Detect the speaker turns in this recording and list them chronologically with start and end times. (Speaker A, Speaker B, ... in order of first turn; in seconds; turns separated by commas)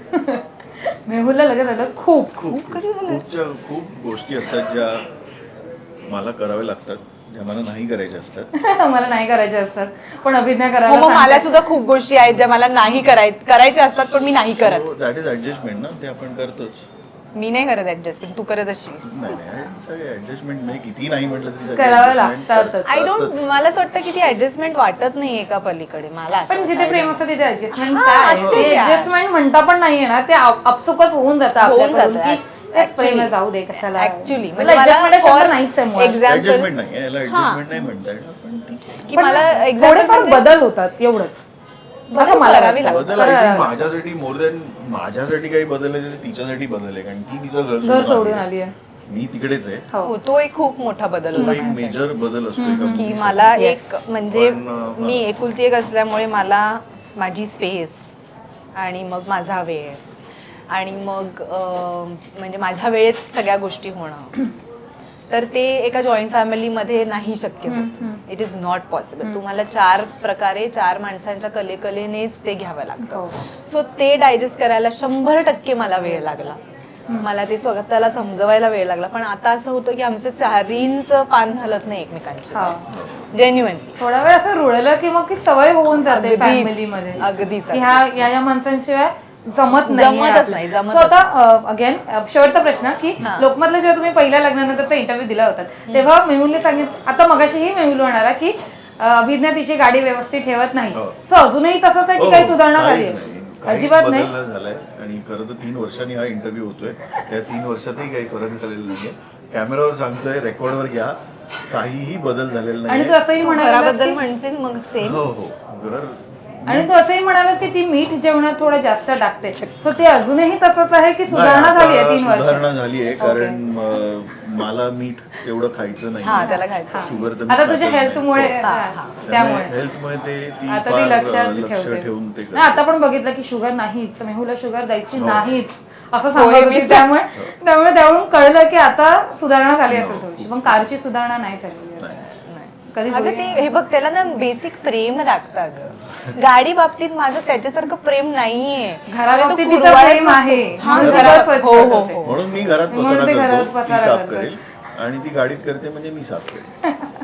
Speaker A: 0.1-2.5, Speaker B: 2.4-5.1, Speaker C: 2.5-3.2, Speaker B: 6.0-8.5, Speaker A: 8.5-11.5, Speaker C: 10.9-14.9, Speaker B: 14.6-16.9, Speaker C: 17.3-19.1, Speaker B: 19.0-23.5, Speaker A: 21.7-22.9, Speaker C: 22.8-29.1, Speaker A: 26.5-36.2, Speaker B: 28.4-28.7, Speaker C: 31.6-36.7, Speaker B: 36.2-39.5, Speaker C: 37.2-37.7, Speaker C: 39.0-40.5, Speaker A: 39.1-41.5, Speaker C: 42.1-43.7, Speaker A: 42.1-43.9, Speaker B: 42.8-48.4, Speaker A: 47.8-48.7, Speaker B: 49.1-49.9, Speaker C: 50.0-52.0, Speaker B: 51.3-53.6, Speaker A: 51.4-51.7, Speaker A: 52.6-53.8, Speaker C: 52.8-58.1, Speaker B: 54.3-55.3, Speaker C: 58.7-60.0, Speaker C: 60.7-64.4, Speaker C: 65.3-76.6, Speaker A: 67.7-68.2, Speaker A: 73.0-73.3, Speaker C: 77.2-82.7, Speaker A: 82.5-82.8, Speaker B: 82.9-83.2, Speaker C: 83.3-84.0, Speaker A: 84.0-104.3, Speaker C: 86.0-88.1, Speaker B: 87.2-87.5, Speaker C: 89.8-91.2, Speaker C: 93.2-93.5, Speaker B: 102.2-111.2, Speaker B: 111.7-113.2, Speaker A: 112.9-114.2, Speaker C: 113.4-115.2, Speaker B: 115.0-116.9, Speaker A: 116.7-123.6, Speaker B: 121.3-128.6, Speaker C: 126.2-127.1, Speaker A: 126.3-129.7, Speaker C: 128.6-129.2, Speaker B: 129.2-132.8, Speaker A: 130.7-142.2, Speaker B: 135.1-135.6, Speaker C: 136.3-137.2, Speaker B: 139.9-140.8, Speaker C: 142.3-152.5, Speaker A: 142.9-143.6, Speaker A: 149.1-152.2, Speaker B: 150.9-151.6, Speaker B: 152.2-156.8, Speaker A: 152.9-154.5